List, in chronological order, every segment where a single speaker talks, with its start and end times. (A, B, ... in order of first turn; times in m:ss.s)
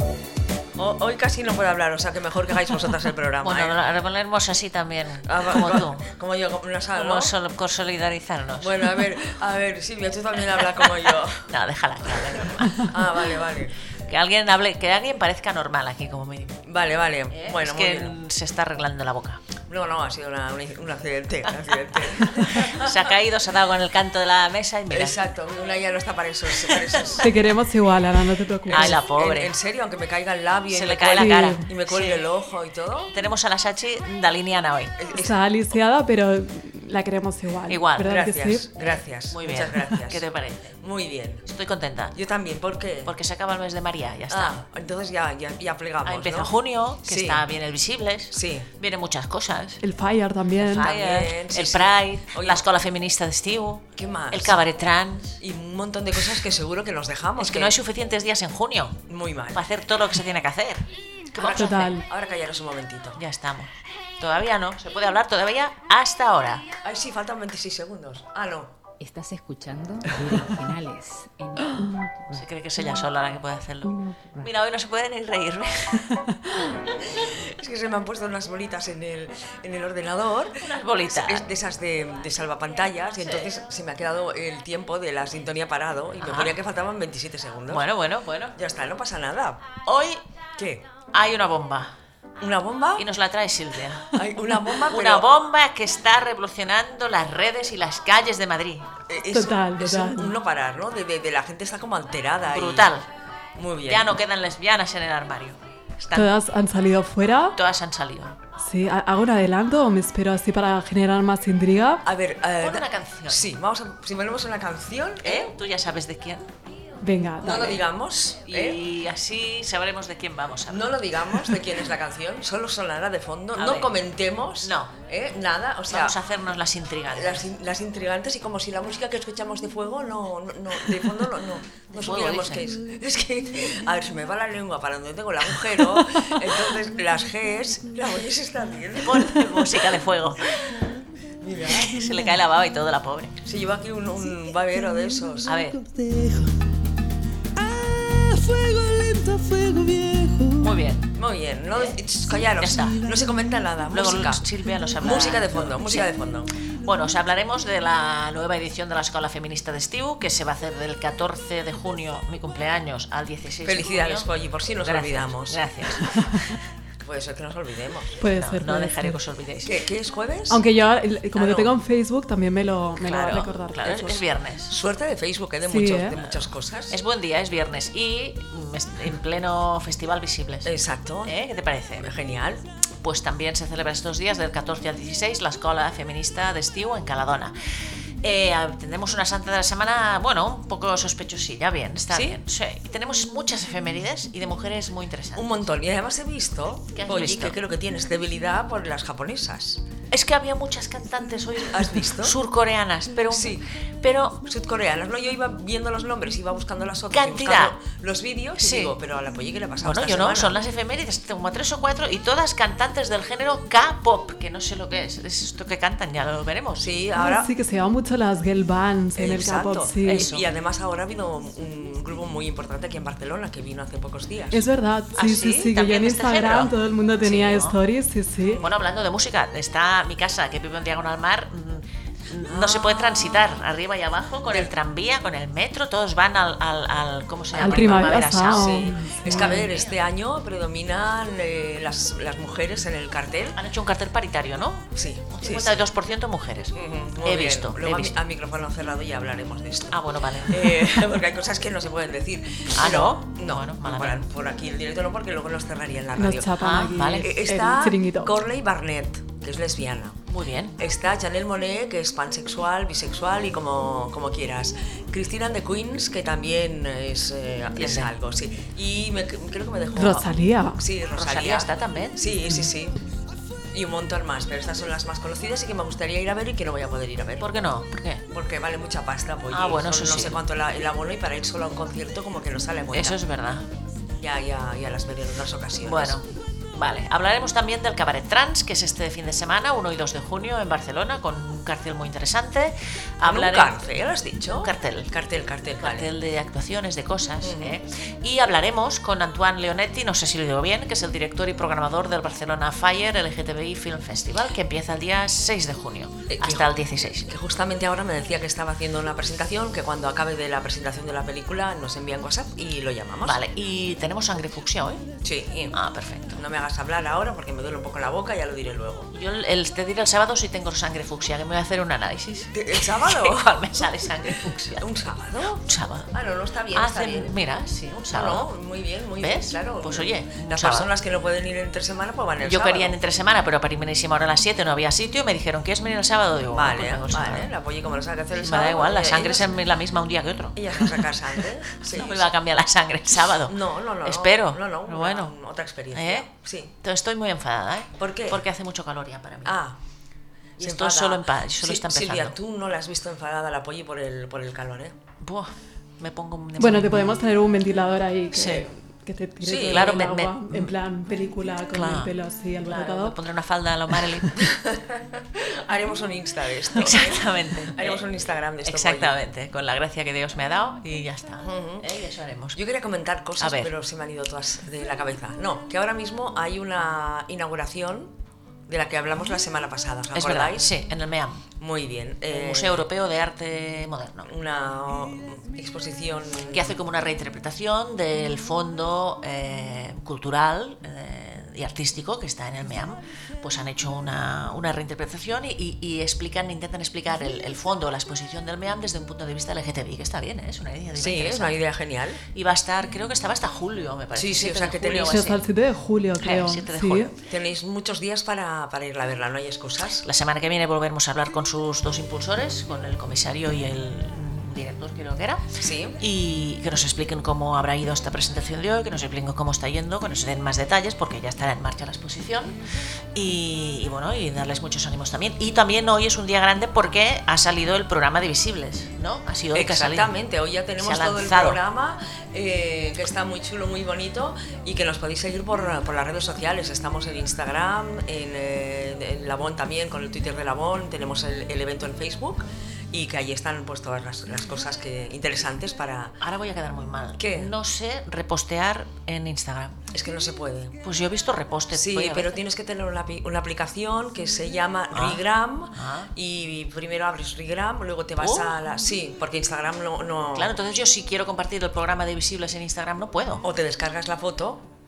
0:00.8-0:03.8 A
0:03.4-0:06.0 B
0:05.3-0:07.3 A
0:07.0-0:09.1 B
0:08.6-0:11.5 A
0:11.5-0:13.1 B
0:12.1-0:13.8 A
0:14.1-0:16.6 B
0:16.6-0:18.2 A
0:17.3-0:19.4 B
0:19.7-0:23.0 A
0:22.3-0:25.2 B
0:24.9-0:27.3 A
0:26.7-0:27.2 B
0:27.2-0:29.0 C
0:28.7-0:33.1 A
0:28.7-0:29.5 B
0:30.7-0:32.2 B
0:31.2-0:31.7 C
0:33.1-0:35.0 B
0:35.0-0:35.4 A
0:35.2-0:38.7 C
0:37.7-0:38.1 B
0:38.0-0:40.3 A
0:39.3-0:40.8 B
0:40.8-0:41.4 A
0:41.5-0:42.2 B
0:42.2-0:43.1 A
0:43.1-0:44.6 B
0:44.3-0:47.4 A
0:46.0-0:49.8 B
0:48.3-0:48.7 A
0:49.8-0:50.9 C
0:50.6-0:55.4 B
0:50.7-0:52.7 A
0:54.0-0:54.6 A
0:55.4-0:57.8 A
0:57.4-0:59.0 B
0:59.1-0:59.6 A
0:59.5-1:01.9 B
1:01.4-1:02.0 C
1:02.0-1:03.2 A
1:03.2-1:06.6 B
1:06.8-1:08.7 A
1:09.0-1:12.4 D
1:12.3-1:16.2 B
1:17.0-1:27.9 A
1:20.6-1:21.5 B
1:26.2-1:26.6 B
1:27.7-1:28.6 B
1:28.6-1:29.7 A
1:29.9-1:30.2 B
1:30.6-1:30.9 A
1:31.1-1:31.9 B
1:32.4-1:33.1 A
1:33.0-1:38.9 B
1:34.1-1:35.3 A
1:39.1-1:42.9 A
1:39.3-1:40.3 C
1:42.5-1:43.1 B
1:43.6-1:44.1 A
1:43.9-1:46.3 B
1:46.1-1:47.6 C
1:47.6-1:48.4 B
1:48.6-1:52.0 C
1:52.0-1:55.5 A
1:52.6-1:53.5 B
1:55.2-1:56.5 B
1:57.0-1:57.8 C
1:57.4-1:58.8 A
1:58.5-2:00.9 B
2:00.7-2:06.2 A
2:03.6-2:03.9 B
2:04.6-2:04.9 B
2:05.9-2:07.5 B
2:07.1-2:19.8 A
2:11.9-2:12.8 B
2:19.0-2:20.8 B
2:21.4-2:22.0 A
2:21.6-2:23.4 B
2:23.4-2:25.6 A
2:25.4-2:25.8 B
2:25.9-2:26.3 E
2:27.7-2:30.4 E
2:30.6-2:31.1 B
2:31.2-2:36.5 A
2:32.6-2:33.0 B
2:33.9-2:36.1 B
2:36.7-2:46.6 B
2:43.6-2:45.6 A
2:47.0-2:48.2 A
2:48.2-2:49.2 C
2:48.3-2:49.8 B
2:49.6-2:50.6 A
2:50.5-2:54.2 C
2:51.3-2:51.7 A
2:53.0-2:54.7 B
2:54.7-2:57.0 A
2:55.7-2:56.2 C
2:56.2-3:00.7 B
3:00.6-3:01.4 A
3:01.2-3:02.1 B
3:02.0-3:02.7 A
3:03.0-3:07.5 B
3:08.2-3:15.6 B
3:12.1-3:12.4 A
3:15.4-3:19.8 A
3:17.0-3:17.6 B
3:20.1-3:24.4 B
3:21.7-3:22.4 A
3:23.3-3:23.7 A
3:24.4-3:30.6 A
3:27.1-3:27.8 B
3:28.6-3:29.0 B
3:29.8-3:36.8 B
3:36.8-3:37.5 A
3:37.2-3:40.3 C
3:39.2-3:44.6 A
3:40.1-3:40.4 B
3:44.5-3:48.6 C
3:45.2-3:46.7 B
3:47.2-3:47.8 B
3:48.6-4:00.0 B
3:52.4-3:53.6 A
3:57.5-4:03.6 A
3:57.6-3:59.6 C
4:03.6-4:08.1 B
4:05.0-4:05.9 A
4:06.7-4:16.6 A
4:09.9-4:11.0 B
4:12.8-4:14.2 B
4:16.2-4:18.3 C
4:16.6-4:17.3 B
4:17.2-4:20.2 A
4:20.3-4:20.8 B
4:20.8-4:33.0 A
4:27.8-4:28.1 B
4:30.0-4:30.8 C
4:31.1-4:32.2 B
4:33.7-4:37.5 A
4:37.4-4:38.2 B
4:38.3-4:43.2 A
4:39.5-4:40.4 B
4:42.9-4:43.7 B
4:44.2-4:46.2 A
4:45.8-4:53.8 B
4:53.2-4:56.1 A
4:54.6-4:55.1 B
4:55.8-5:07.3 B
4:57.4-4:57.8 A
5:06.3-5:06.7 A
5:07.3-5:13.4 A
5:13.2-5:15.0 B
5:15.2-5:15.8 A
5:15.7-5:16.4 B
5:16.3-5:19.1 A
5:19.1-5:25.0 B
5:22.5-5:23.9 A
5:24.8-5:27.4 A
5:25.6-5:26.1 B
5:26.7-5:28.5 B
5:28.1-5:33.0 A
5:29.2-5:30.9 B
5:32.4-5:37.5 B
5:36.5-5:39.6 A
5:38.4-5:41.1 B
5:40.6-5:42.3 A
5:41.7-5:45.3 B
5:43.5-5:46.7 A
5:45.9-5:46.3 B
5:46.8-5:49.6 B
5:48.0-5:48.4 A
5:49.4-5:49.8 A
5:50.6-5:55.0 A
5:50.6-5:52.4 B
5:55.2-5:57.3 B
5:56.6-6:03.2 C
5:58.3-5:58.6 B
5:59.4-6:00.0 A
5:59.6-6:00.7 B
6:01.7-6:02.1 B
6:02.6-6:04.5 B
6:04.4-6:09.2 A
6:06.8-6:08.1 B
6:08.6-6:12.6 B
6:11.4-6:11.9 A
6:12.5-6:18.2 A
6:13.4-6:13.7 B
6:18.7-6:20.7 A
6:20.2-6:21.4 B
6:21.6-6:22.8 A
6:22.3-6:24.3 B
6:24.2-6:26.8 A
6:26.5-6:41.6 B
6:41.0-6:42.2 A
6:42.3-6:45.4 B
6:44.2-6:45.3 A
6:45.1-6:47.1 C
6:46.2-6:47.2 B
6:47.3-6:50.1 A
6:50.0-6:55.4 B
6:55.6-6:56.0 A
6:56.0-7:02.6 B
7:03.2-7:10.1 B
7:09.5-7:26.2 A
7:10.8-7:11.6 B
7:26.2-7:29.8 B
7:27.2-7:27.5 A
7:29.9-7:30.8 A
7:30.8-7:32.4 B
7:31.7-7:40.6 A
7:34.9-7:35.2 B
7:35.8-7:36.1 B
7:38.2-7:38.6 B
7:40.3-7:43.4 B
7:43.4-7:44.7 A